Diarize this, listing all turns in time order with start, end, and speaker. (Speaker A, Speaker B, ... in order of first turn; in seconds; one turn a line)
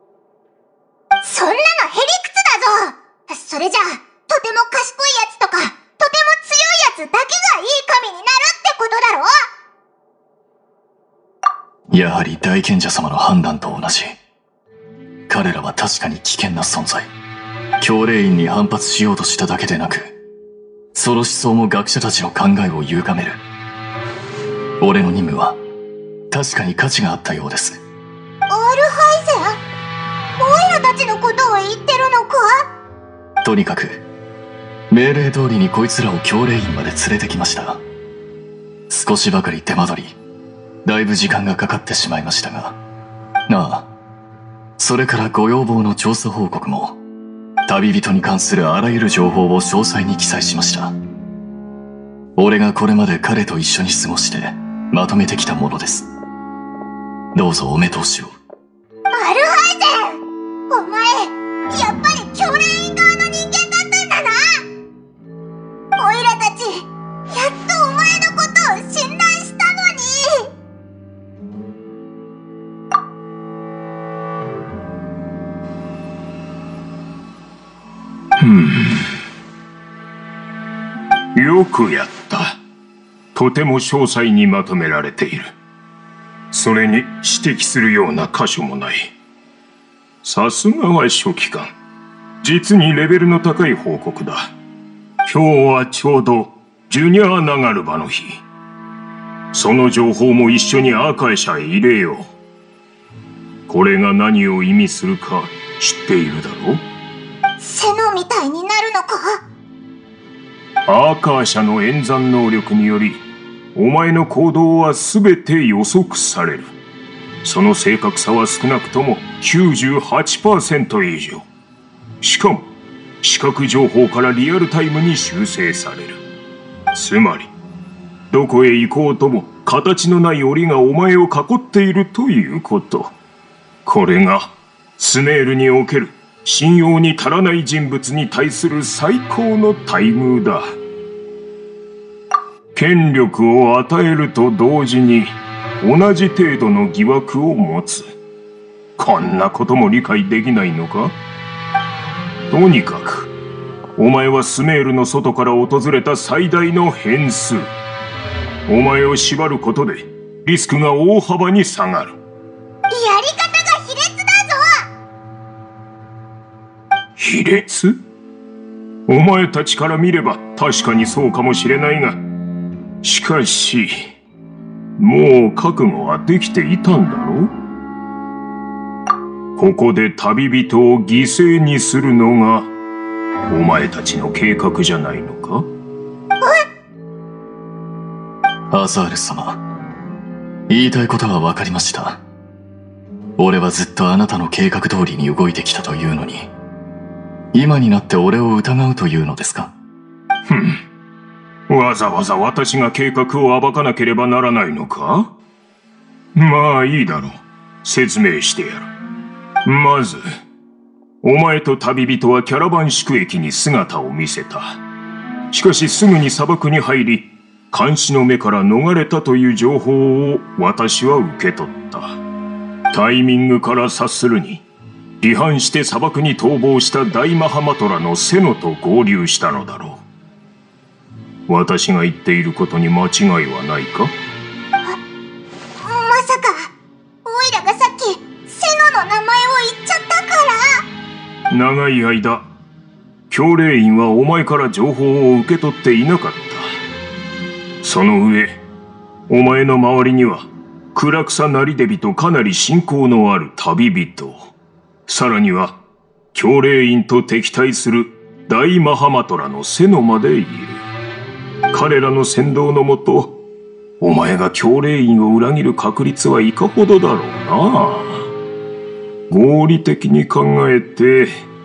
Speaker A: 1.2-9.3
Speaker B: 11.9-14.2
Speaker B: 15.3-17.1
Speaker B: 17.8-20.1
Speaker B: 20.9-23.4
Speaker B: 24.8-25.6
Speaker B: 26.3-27.8
Speaker A: 28.5-29.6
Speaker A: 30.4-32.6
Speaker B: 33.4-34.0
Speaker B: 34.9-37.8
Speaker B: 38.9-40.2
Speaker B: 40.8-42.8
Speaker B: 43.5-43.9
Speaker B: 44.8-47.0
Speaker B: 47.6-50.9
Speaker B: 52.4-56.1
Speaker B: 57.3-58.3
Speaker A: 59.1-64.6
Speaker A: 66.0-70.5
Speaker C: 78.4-79.1
Speaker C: 81.3-82.6
Speaker C: 83.3-85.5
Speaker C: 86.5-89.1
Speaker C: 90.2-91.7
Speaker C: 92.4-94.5
Speaker C: 95.2-98.4
Speaker C: 99.5-102.3
Speaker C: 103.7-106.8
Speaker A: 107.6-109.4
Speaker C: 110.9-113.2
Speaker C: 113.7-116.7
Speaker C: 117.4-121.5
Speaker C: 122.2-122.7
Speaker C: 123.2-126.2
Speaker C: 126.9-127.5
Speaker C: 128.3-133.1
Speaker C: 133.8-140.7
Speaker C: 142.7-148.1
Speaker C: 149.0-151.1
Speaker C: 152.5-153.3
Speaker C: 154.0-157.7
Speaker C: 158.7-162.2
Speaker A: 162.9-164.8
Speaker C: 167.2-167.9
Speaker C: 169.1-172.2
Speaker C: 173.0-174.1
Speaker C: 175.0-177.5
Speaker C: 179.6-182.7
Speaker C: 183.5-185.7
Speaker B: 188.7-189.6
Speaker B: 190.7-192.2
Speaker B: 193.4-196.5
Speaker B: 197.5-199.7
Speaker C: 200.5-200.8
Speaker C: 201.7-205.3
Speaker C: 206.3-208.9
Speaker C: 209.6-210.2
Speaker C: 211.2-214.8
Speaker C: 215.5-222.2
Speaker C: 222.9-224.6
Speaker C: 225.2-230.0
Speaker C: 231.5-234.1
Speaker A: 235.8-236.7
Speaker A: 237.2-240.8
Speaker C: 241.5-242.4
Speaker C: 243.3-246.8
Speaker C: 247.8-248.6
Speaker C: 249.3-254.5
Speaker C: 255.1-255.8
Speaker C: 256.3-260.8
Speaker C: 261.7-263.3
Speaker C: 264.0-268.3
Speaker C: 269.3-271.4